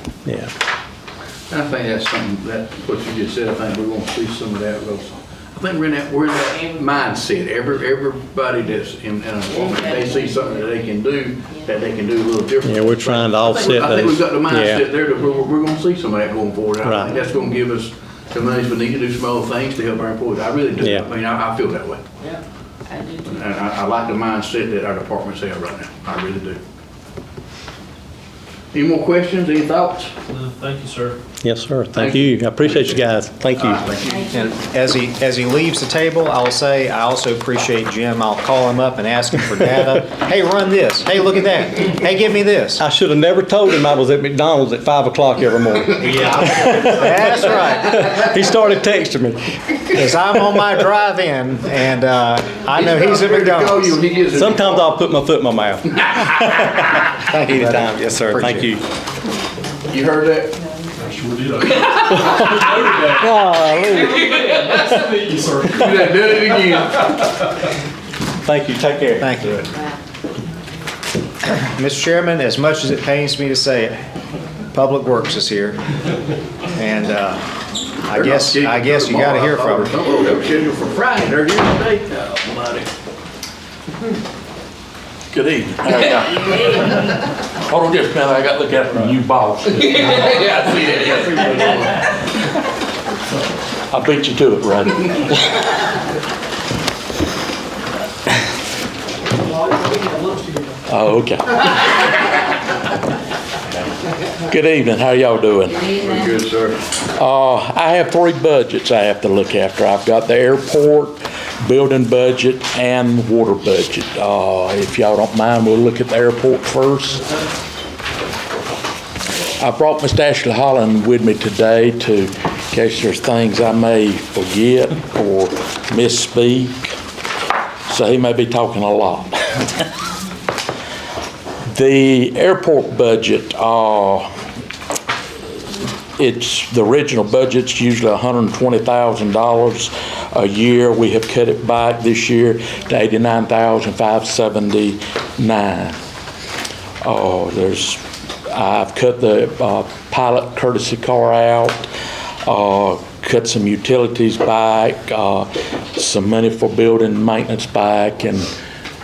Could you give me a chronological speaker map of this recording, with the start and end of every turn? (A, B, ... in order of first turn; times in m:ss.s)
0:00.2-0:00.5 A
0:01.5-0:22.0 B
0:06.4-0:07.2 C
0:09.5-0:11.8 C
0:12.6-0:14.8 A
0:16.8-0:17.1 A
0:20.8-0:21.1 A
0:22.2-0:23.5 C
0:23.2-0:26.6 B
0:28.7-0:30.1 B
0:30.3-0:31.2 D
0:31.4-0:33.8 A
0:31.9-0:33.0 B
0:33.5-0:34.4 B
0:34.0-0:34.5 C
0:34.3-0:42.8 E
0:42.8-0:50.1 A
0:45.9-0:48.0 E
0:49.9-0:53.9 E
0:52.8-0:54.9 B
0:54.3-0:58.8 A
0:57.2-0:58.7 E
0:59.9-1:00.6 B
1:01.0-1:03.3 D
1:02.1-1:05.0 A
1:04.3-1:05.8 D
1:05.6-1:07.5 B
1:08.4-1:09.6 A
1:09.2-1:09.7 E
1:09.7-1:10.0 C
1:11.4-1:14.0 E
1:14.7-1:15.8 E
1:16.7-1:17.4 E
1:18.0-1:19.9 E
1:18.1-1:22.9 B
1:25.3-1:27.0 F
1:26.3-1:27.1 C
1:27.5-1:31.3 F
1:30.0-1:32.1 B
1:33.9-1:35.6 F
1:39.6-1:40.6 D
1:40.9-1:42.2 F
1:44.4-1:45.9 F
1:45.6-1:46.5 C
1:46.0-1:46.8 B
1:47.0-1:57.2 F
1:59.6-2:06.9 F
2:07.9-2:09.6 F
2:11.7-2:14.3 F
2:16.2-2:25.9 F
2:27.0-2:31.9 F
2:32.4-2:38.4 F